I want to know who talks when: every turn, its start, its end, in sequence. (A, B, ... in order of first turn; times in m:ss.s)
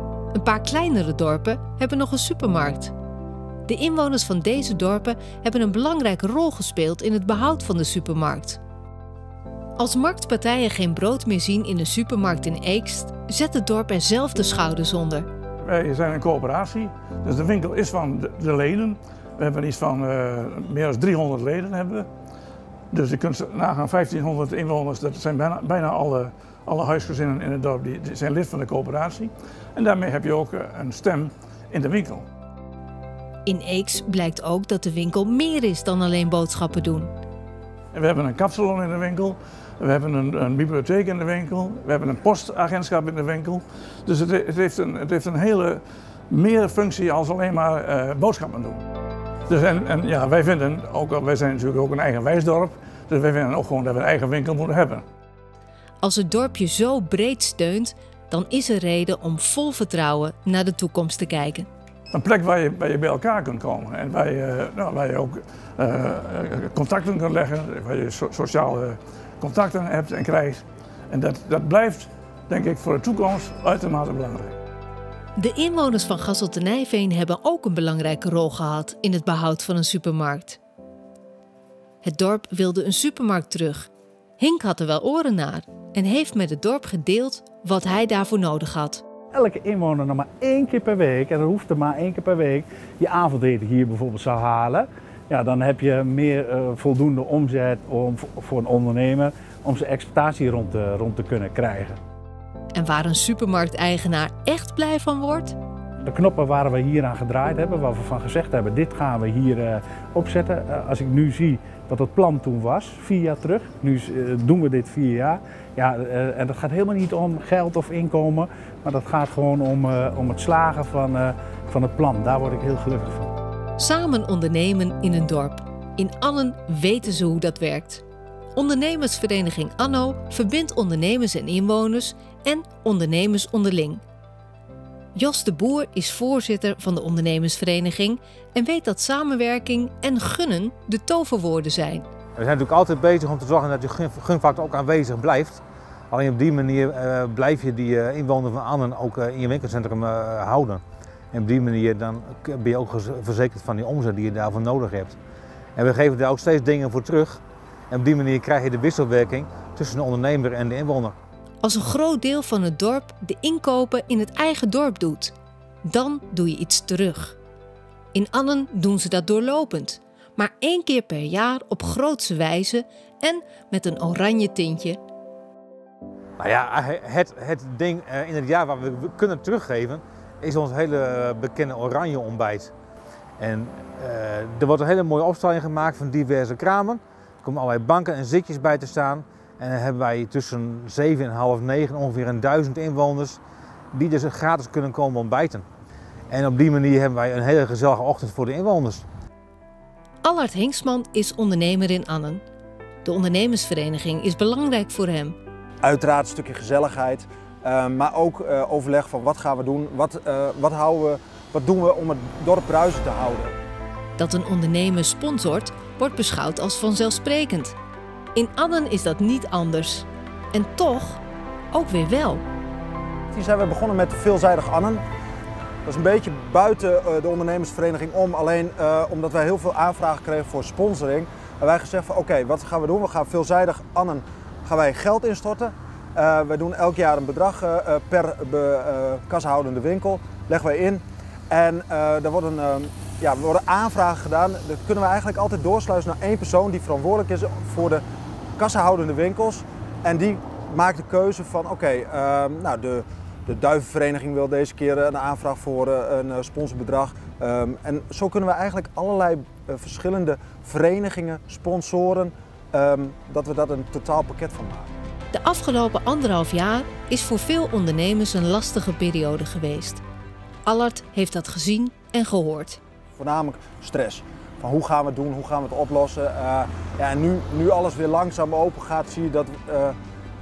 0:00.3-0:02.9 A
0:03.7-0:08.6 A
0:09.8-0:15.3 A
0:15.6-0:22.1 B
0:22.9-0:32.2 B
0:33.4-0:37.1 A
0:37.9-0:48.8 B
0:49.5-0:55.0 B
0:56.0-1:01.7 A
1:02.1-1:14.6 B
1:15.4-1:20.6 A
1:22.0-1:29.0 A
1:29.3-1:42.0 C
1:42.7-1:45.6 A
1:46.0-2:03.3 C
2:03.8-2:08.0 A
2:08.6-2:14.0 A
2:15.2-2:22.1 A
2:22.4-2:35.2 D
2:35.8-2:37.4 D
2:37.9-2:41.2 D
2:41.6-2:47.4 A
2:48.1-2:55.0 A
2:56.4-3:02.7 D
3:03.4-3:13.4 D
3:13.9-3:15.6 D
3:16.3-3:19.0 D
3:20.2-3:22.4 A
3:23.0-3:25.4 A
3:25.8-3:33.5 E
3:34.2-3:37.8 A
3:38.3-3:42.4 A
3:43.3-3:45.0 E
3:45.8-4:08.0 E
4:08.6-4:24.9 E
4:25.3-4:30.0 A
4:30.7-4:32.8 A
4:33.2-4:40.0 E